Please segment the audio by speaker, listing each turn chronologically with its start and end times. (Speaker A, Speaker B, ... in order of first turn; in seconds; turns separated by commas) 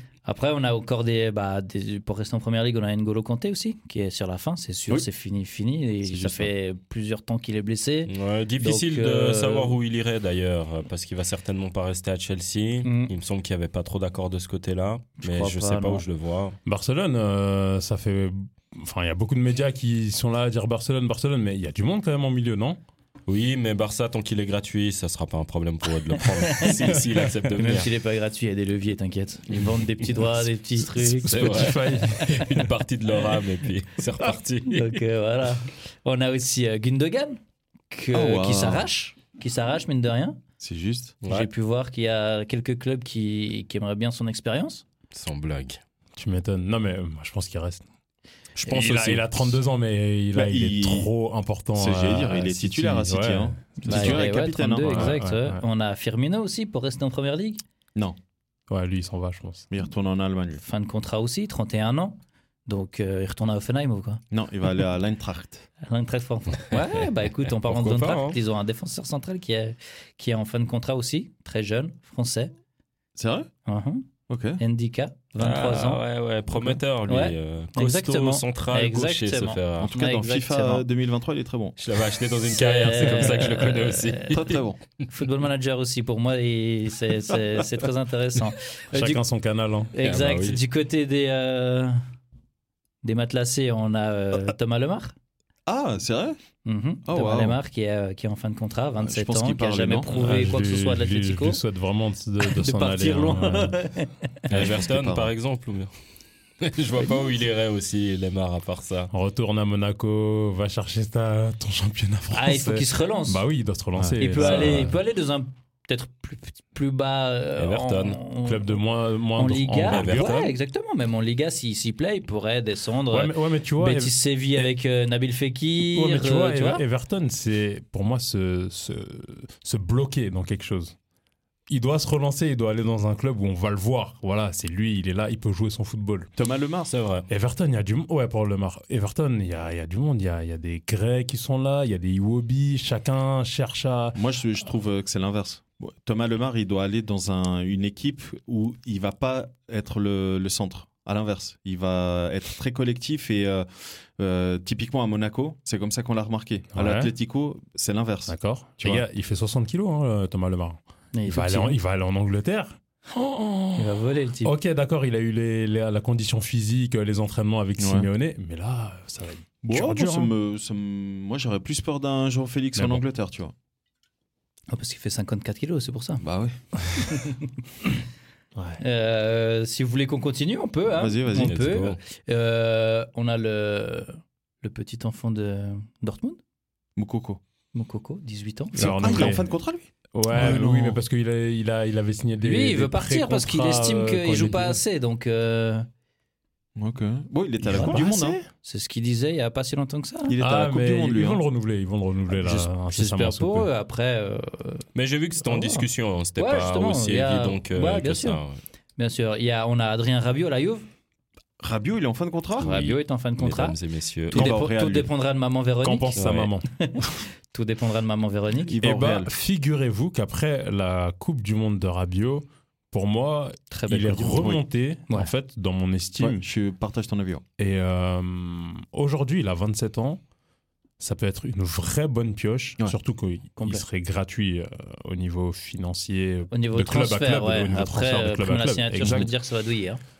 Speaker A: 0.2-9.7, Speaker B: 6.0-6.5, Speaker C: 8.1-16.6, Speaker A: 12.8-13.1, Speaker A: 15.2-16.0, Speaker D: 16.6-22.8, Speaker C: 23.3-27.9, Speaker A: 26.1-32.0, Speaker D: 30.9-32.5, Speaker C: 31.2-35.0, Speaker A: 34.7-40.4, Speaker B: 38.1-38.9, Speaker B: 40.6-41.2, Speaker C: 41.2-41.5, Speaker A: 41.2-44.8, Speaker C: 45.1-45.8, Speaker D: 46.1-47.8, Speaker C: 48.6-49.5, Speaker D: 48.6-54.2, Speaker B: 50.3-51.1, Speaker B: 51.7-55.1, Speaker A: 53.8-57.6, Speaker D: 54.8-55.6, Speaker D: 58.7-59.7, Speaker B: 59.7-60.6, Speaker A: 60.6-64.2, Speaker B: 64.3-65.7, Speaker A: 65.8-72.5, Speaker C: 67.5-68.4, Speaker B: 73.2-73.5, Speaker A: 73.7-74.1, Speaker B: 74.3-74.6, Speaker A: 74.6-76.0, Speaker C: 75.4-79.9, Speaker A: 76.7-80.8, Speaker B: 79.8-81.8, Speaker C: 81.8-84.6, Speaker A: 82.4-84.4, Speaker B: 84.3-84.8, Speaker A: 85.1-89.2, Speaker D: 88.9-89.9, Speaker A: 89.9-92.0, Speaker C: 90.0-90.6, Speaker A: 93.0-95.1, Speaker B: 95.7-96.4, Speaker A: 96.6-101.6, Speaker B: 97.0-97.6, Speaker B: 99.0-100.2, Speaker D: 100.2-103.8, Speaker A: 102.4-104.5, Speaker C: 104.5-105.9, Speaker B: 104.5-105.3, Speaker C: 106.6-109.1, Speaker D: 109.1-114.9, Speaker A: 112.3-113.4, Speaker B: 113.9-114.4, Speaker A: 114.2-118.8, Speaker C: 117.6-118.2, Speaker D: 118.4-120.5, Speaker A: 119.3-126.8, Speaker C: 119.9-120.5, Speaker D: 123.1-124.1, Speaker D: 125.9-130.9, Speaker D: 131.7-136.3, Speaker B: 136.3-136.9, Speaker C: 136.9-137.3, Speaker D: 137.3-144.2, Speaker B: 144.1-159.0, Speaker D: 156.7-157.1, Speaker D: 158.3-170.3, Speaker A: 161.1-161.8, Speaker A: 163.7-164.5, Speaker B: 167.8-168.1, Speaker B: 169.6-173.5, Speaker D: 172.7-173.0, Speaker A: 174.7-176.2, Speaker B: 176.2-176.5, Speaker A: 177.0-177.4, Speaker A: 178.8-186.4, Speaker B: 180.9-181.6, Speaker C: 181.3-182.0, Speaker B: 186.9-187.4, Speaker A: 187.7-189.3, Speaker D: 188.7-189.4, Speaker B: 188.7-191.0, Speaker D: 190.1-194.8, Speaker A: 192.4-195.9, Speaker B: 196.8-198.4, Speaker D: 197.6-198.5, Speaker A: 197.7-198.1, Speaker A: 198.6-200.4, Speaker B: 200.3-201.4, Speaker D: 200.4-203.7, Speaker A: 202.3-204.8, Speaker C: 204.9-208.6, Speaker A: 205.4-205.8, Speaker A: 206.4-208.4, Speaker A: 209.0-210.9, Speaker B: 211.6-212.7, Speaker C: 212.6-214.5, Speaker A: 212.6-213.8, Speaker B: 214.3-215.1, Speaker A: 214.3-218.8, Speaker D: 215.8-216.7, Speaker C: 216.1-216.5, Speaker B: 218.7-219.3, Speaker D: 218.8-226.4, Speaker A: 223.7-225.3, Speaker B: 226.2-227.4, Speaker D: 227.6-230.2, Speaker D: 231.0-239.3, Speaker A: 233.6-233.8, Speaker A: 236.5-240.0